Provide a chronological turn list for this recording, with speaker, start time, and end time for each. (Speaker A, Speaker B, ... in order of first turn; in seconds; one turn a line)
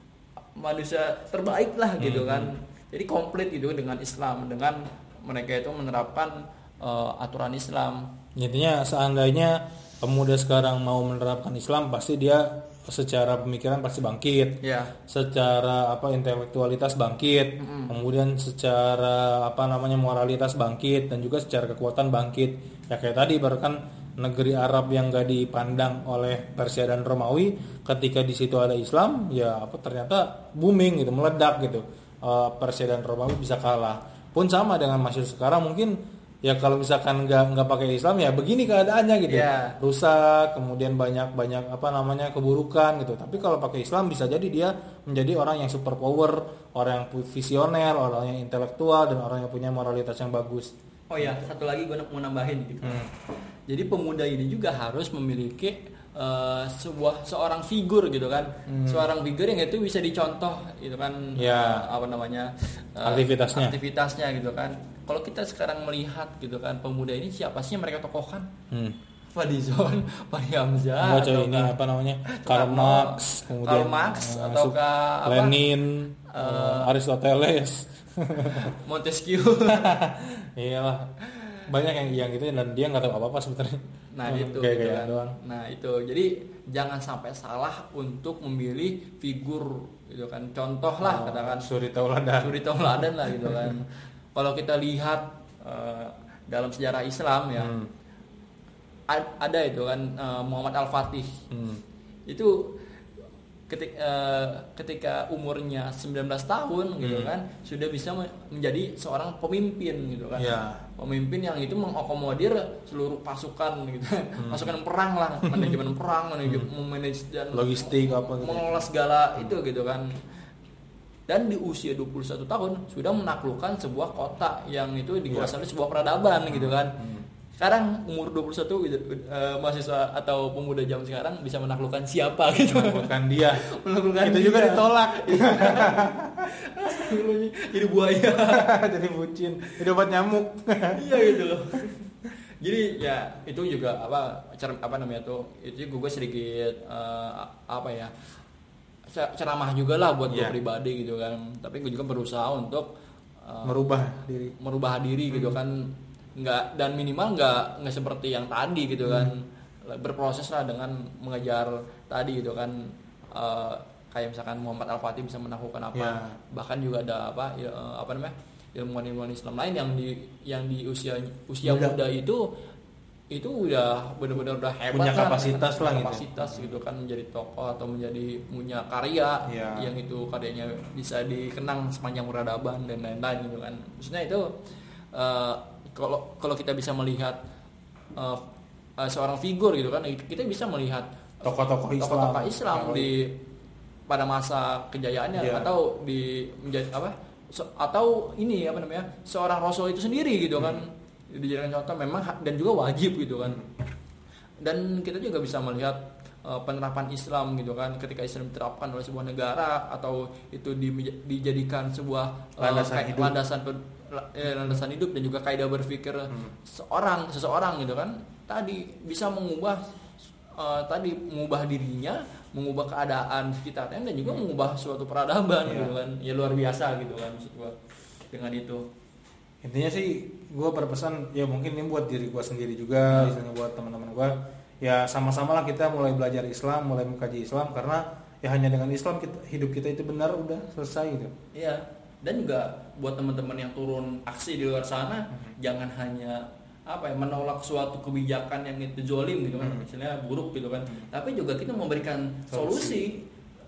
Speaker A: 0.6-8.1
Speaker B: 2.0-2.5
Speaker B: 8.3-51.4
Speaker A: 14.6-14.9
Speaker A: 17.6-17.9
Speaker A: 39.3-39.8
Speaker A: 51.1-53.1
Speaker B: 52.8-53.1
Speaker A: 53.7-68.5
Speaker B: 58.7-59.1
Speaker B: 61.4-61.9
Speaker B: 63.0-63.8
Speaker B: 68.7-69.0
Speaker A: 69.3-71.7
Speaker B: 71.0-78.8
Speaker A: 72.2-75.6
Speaker A: 76.3-76.9
Speaker A: 78.5-80.0
Speaker B: 79.7-81.1
Speaker A: 81.3-81.6
Speaker B: 81.7-85.4
Speaker A: 84.1-91.7
Speaker B: 91.0-93.8
Speaker A: 92.4-97.7
Speaker B: 97.6-97.9
Speaker A: 99.1-101.4
Speaker B: 101.5-101.8
Speaker A: 102.3-102.7
Speaker A: 103.7-120.2
Speaker B: 107.0-107.3
Speaker B: 110.3-110.8
Speaker B: 114.4-114.7
Speaker B: 115.5-115.8
Speaker B: 117.5-118.8
Speaker A: 121.3-127.0
Speaker B: 126.5-127.3
Speaker A: 127.6-138.7
Speaker B: 132.7-133.6
Speaker B: 134.2-136.5
Speaker B: 138.5-141.4
Speaker A: 140.9-142.0
Speaker A: 142.6-148.1
Speaker A: 149.1-152.9
Speaker B: 150.3-150.5
Speaker A: 153.4-153.8
Speaker B: 153.6-154.5
Speaker A: 154.6-172.5
Speaker B: 155.3-155.6
Speaker B: 159.0-159.3
Speaker B: 165.9-166.4
Speaker B: 171.6-172.0
Speaker A: 173.3-184.6
Speaker B: 174.8-176.7
Speaker B: 179.5-179.9
Speaker A: 185.1-187.4
Speaker A: 188.2-188.4
Speaker A: 189.0-193.4
Speaker B: 191.4-193.1
Speaker A: 194.1-203.6
Speaker B: 195.3-195.7
Speaker A: 204.6-219.8
Speaker B: 212.6-213.3
Speaker A: 220.5-227.7
Speaker B: 225.7-225.9
Speaker A: 228.3-228.8
Speaker B: 229.6-241.3
Speaker A: 241.5-253.2
Speaker B: 252.5-253.0